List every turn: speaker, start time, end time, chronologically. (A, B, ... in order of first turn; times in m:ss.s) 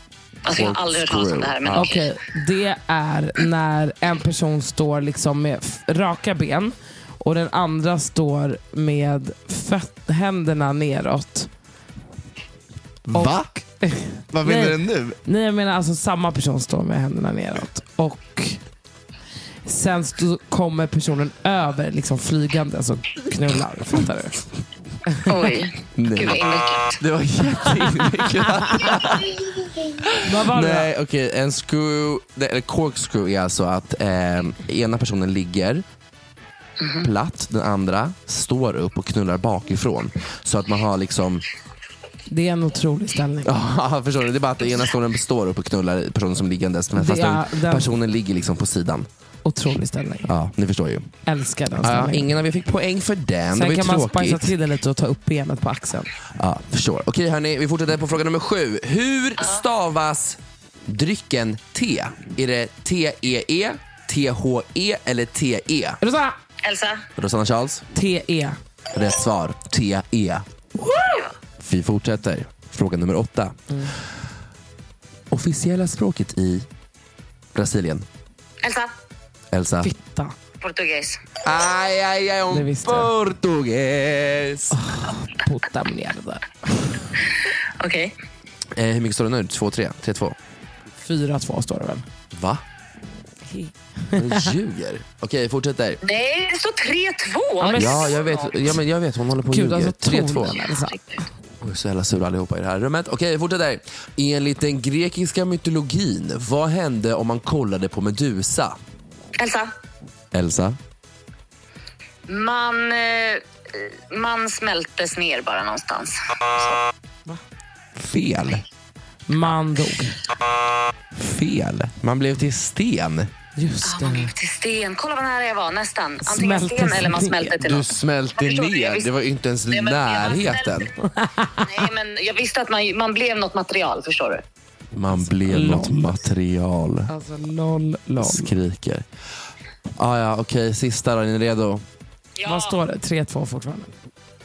0:00.4-0:02.1 A
0:00.5-0:01.9 B
0:01.7-0:11.5 C
0:13.1-0:13.5 B
0:13.1-0:18.6 C
0:14.3-0:15.2 B
0:19.6-0:24.4 C
0:25.1-0:25.4 C
0:25.2-0:27.0 A
0:26.0-0:26.4 B
0:27.0-0:29.4 B
0:30.0-0:35.8 B
0:30.2-0:30.9 C
0:36.8-0:37.1 A
0:37.0-0:41.4 B
0:42.3-0:43.5 C
0:43.4-0:49.1 B
0:47.0-0:48.0 C
0:49.4-0:50.3 C
0:50.3-0:51.1 B
0:51.3-0:52.3 C
0:51.8-0:54.6 B
0:53.5-0:56.1 C
0:56.4-1:06.0 B
1:06.0-1:06.4 C
1:06.6-1:07.0 A
1:07.2-1:07.9 B
1:07.9-1:08.6 C
1:08.9-1:10.4 B
1:10.8-1:11.3 C
1:11.0-1:11.3 A
1:11.6-1:13.6 B
1:15.3-1:16.7 B
1:17.5-1:18.1 B
1:18.6-1:18.9 A
1:19.5-1:19.9 B
1:19.8-1:20.4 C
1:20.6-1:21.2 A
1:21.4-1:24.8 B
1:22.5-1:23.1 C
1:24.7-1:27.1 C
1:27.8-1:28.1 A
1:28.7-1:30.4 B
1:31.0-1:32.1 C
1:32.3-1:32.6 B
1:33.5-1:34.5 C
1:34.1-1:36.0 B
1:36.0-1:38.6 A
1:37.6-1:38.1 C
1:37.8-1:40.6 B
1:39.5-1:41.0 C
1:40.7-1:41.0 A
1:41.6-1:48.8 B
1:49.4-1:49.7 A
1:50.3-1:50.8 B
1:52.3-1:56.8 A
1:58.0-1:58.6 B
1:59.3-2:00.2 C
2:01.1-2:03.3 B
2:03.6-2:04.3 C
2:03.8-2:09.1 A
2:06.2-2:07.6 C
2:07.6-2:10.9 B
2:09.7-2:10.9 A
2:11.0-2:11.8 C
2:11.6-2:14.4 A
2:14.9-2:17.1 B
2:15.4-2:16.3 C
2:17.1-2:18.5 C
2:18.2-2:19.1 B
2:20.0-2:21.9 B
2:22.4-2:22.8 A
2:22.4-2:23.9 C